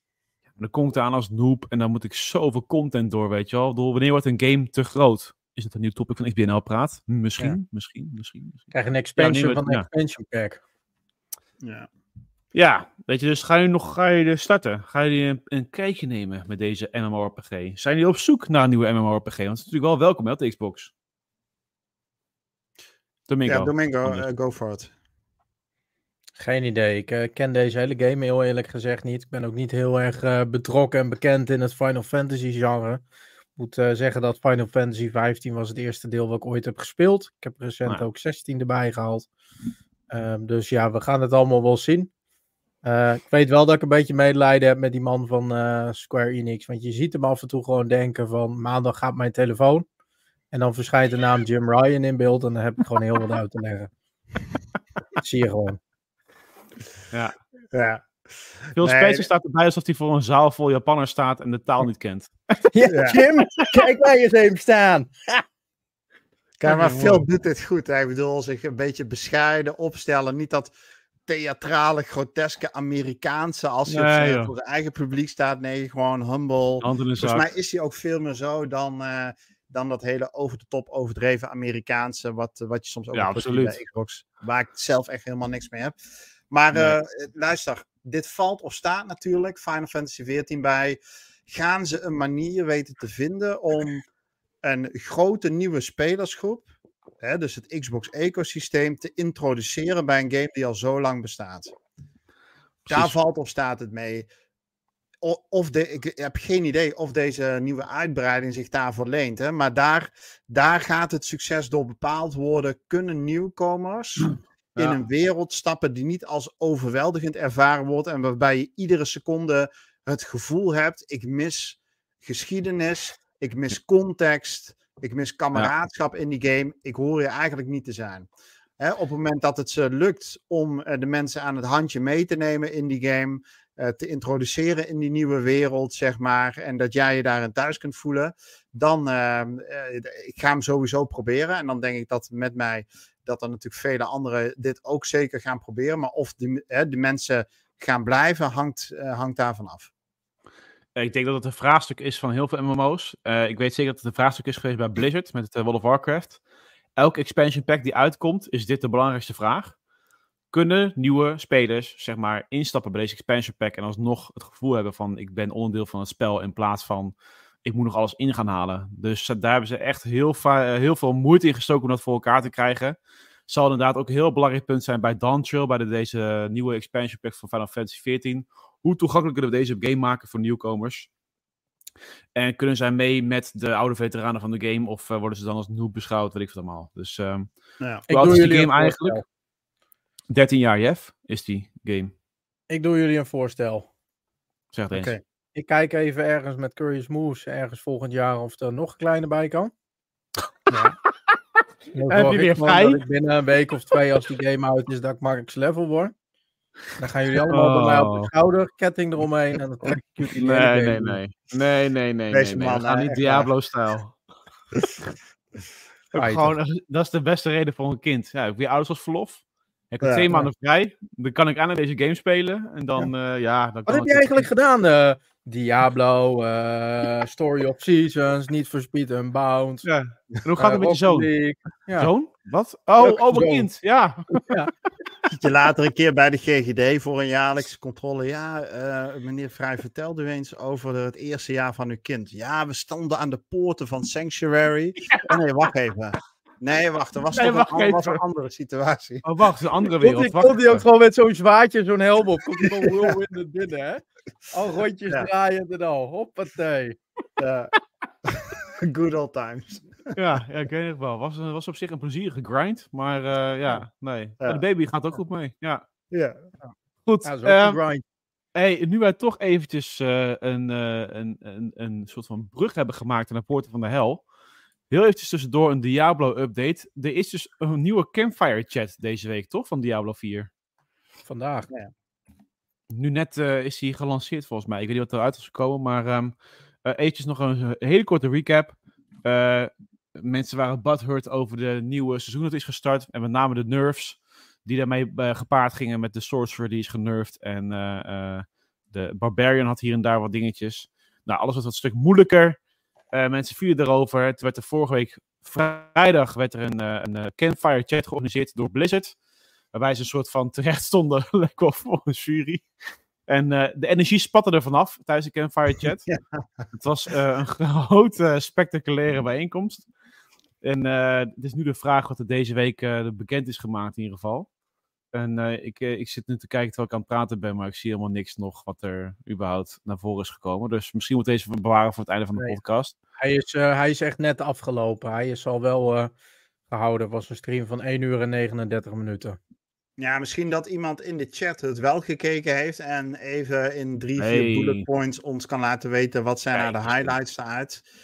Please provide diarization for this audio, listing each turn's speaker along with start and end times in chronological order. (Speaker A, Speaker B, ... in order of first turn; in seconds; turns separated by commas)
Speaker A: 0.6-9.9, Speaker B: 8.7-10.6, Speaker C: 11.6-11.9, Speaker A: 12.5-20.9, Speaker A: 23.3-24.2, Speaker C: 23.5-24.9, Speaker B: 26.4-33.0, Speaker B: 33.6-39.3, Speaker B: 40.1-42.1, Speaker B: 42.8-49.9, Speaker B: 50.5-53.9, Speaker B: 55.2-55.8, Speaker C: 57.7-58.0, Speaker C: 58.7-59.2, Speaker A: 58.8-62.3, Speaker B: 62.7-65.1, Speaker C: 62.9-63.2, Speaker C: 66.6-70.7, Speaker A: 66.6-67.2, Speaker C: 71.2-85.9, Speaker A: 73.9-74.5, Speaker A: 76.8-77.5, Speaker A: 83.1-83.8, Speaker C: 86.5-94.0, Speaker A: 86.7-87.0, Speaker C: 94.6-96.7, Speaker C: 97.2-101.7, Speaker A: 102.8-103.1, Speaker C: 102.9-104.3, Speaker C: 105.2-128.3, Speaker C: 128.8-149.9, Speaker A: 150.9-156.4, Speaker A: 156.9-159.7, Speaker A: 160.5-172.9, Speaker A: 173.5-181.1, Speaker A: 182.3-187.5, Speaker A: 188.1-189.2, Speaker B: 188.1-189.2, Speaker A: 190.3-192.1, Speaker B: 192.7-193.9, Speaker A: 194.7-195.1, Speaker C: 194.9-195.2, Speaker B: 195.5-199.7, Speaker C: 200.7-200.9, Speaker B: 201.9-206.1, Speaker A: 202.1-203.0, Speaker B: 207.0-211.2, Speaker A: 207.5-208.3, Speaker A: 210.3-214.2, Speaker C: 212.3-213.5, Speaker A: 216.1-224.5, Speaker B: 216.1-216.5, Speaker C: 220.0-220.3, Speaker B: 223.8-229.9, Speaker A: 229.8-231.3, Speaker B: 230.6-232.1, Speaker A: 232.0-234.5, Speaker B: 233.0-233.7, Speaker B: 234.3-234.7, Speaker C: 235.3-249.2, Speaker A: 245.1-245.4, Speaker A: 247.3-248.2, Speaker A: 249.2-250.8, Speaker B: 250.0-257.0, Speaker C: 257.4-257.7, Speaker C: 258.2-260.2, Speaker A: 260.1-265.8, Speaker C: 266.1-266.6, Speaker A: 267.0-267.8, Speaker B: 267.2-268.0, Speaker A: 268.5-274.2, Speaker A: 274.9-280.5, Speaker B: 281.3-281.7, Speaker A: 282.9-302.6, Speaker A: 303.1-309.1, Speaker A: 309.7-312.6, Speaker A: 313.3-316.0, Speaker C: 316.1-316.6, Speaker A: 316.7-319.9, Speaker A: 320.6-324.5, Speaker A: 325.1-332.9, Speaker B: 333.2-336.1, Speaker B: 336.7-339.4, Speaker C: 340.0-347.8, Speaker A: 344.2-344.9, Speaker A: 346.5-347.1